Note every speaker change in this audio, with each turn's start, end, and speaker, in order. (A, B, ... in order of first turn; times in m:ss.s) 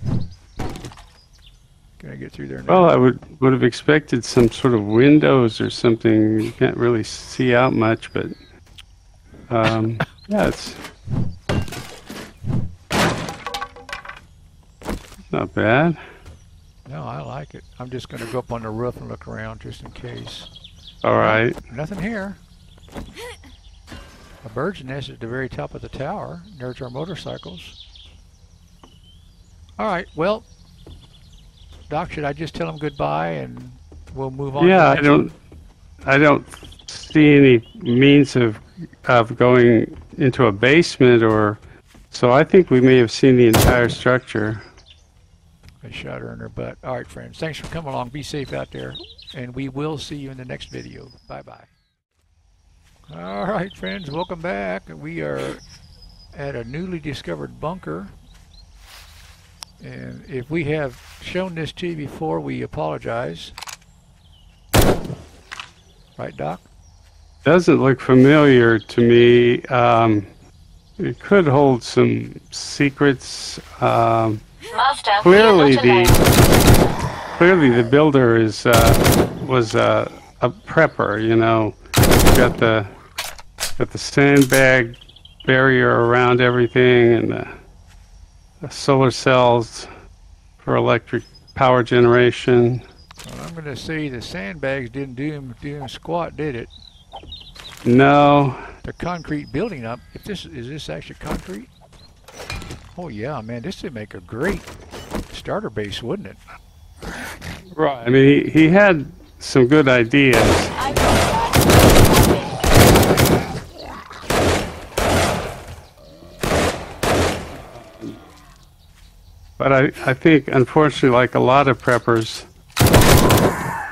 0:02.0-0:03.0 A
0:02.7-0:08.3 B
0:09.5-0:10.8 B
0:15.3-0:16.0 B
0:16.8-0:20.5 A
0:21.0-0:21.6 B
0:21.2-0:22.4 A
0:24.4-0:27.8 A
0:29.8-0:30.4 A
0:31.9-0:35.3 A
0:34.6-0:35.3 B
0:36.0-0:41.6 B
0:42.1-0:44.6 B
0:45.8-0:51.7 A
0:53.1-0:55.6 A
0:56.3-0:58.1 A
0:59.8-1:03.5 A
1:06.2-1:06.6 A
1:07.4-1:10.3 B
1:11.0-1:14.4 B
1:14.7-1:16.2 C
1:15.2-1:16.2 B
1:17.4-1:22.9 B
1:23.8-1:27.5 B
1:28.6-1:29.9 B
1:30.6-1:32.8 B
1:33.2-1:36.7 A
1:37.8-1:38.6 B
1:38.8-1:41.7 A
1:42.9-1:44.7 A
1:45.3-1:46.4 A
1:47.8-1:50.8 B
1:50.8-1:52.6 C
1:57.7-1:58.2 B
1:59.6-2:02.5 B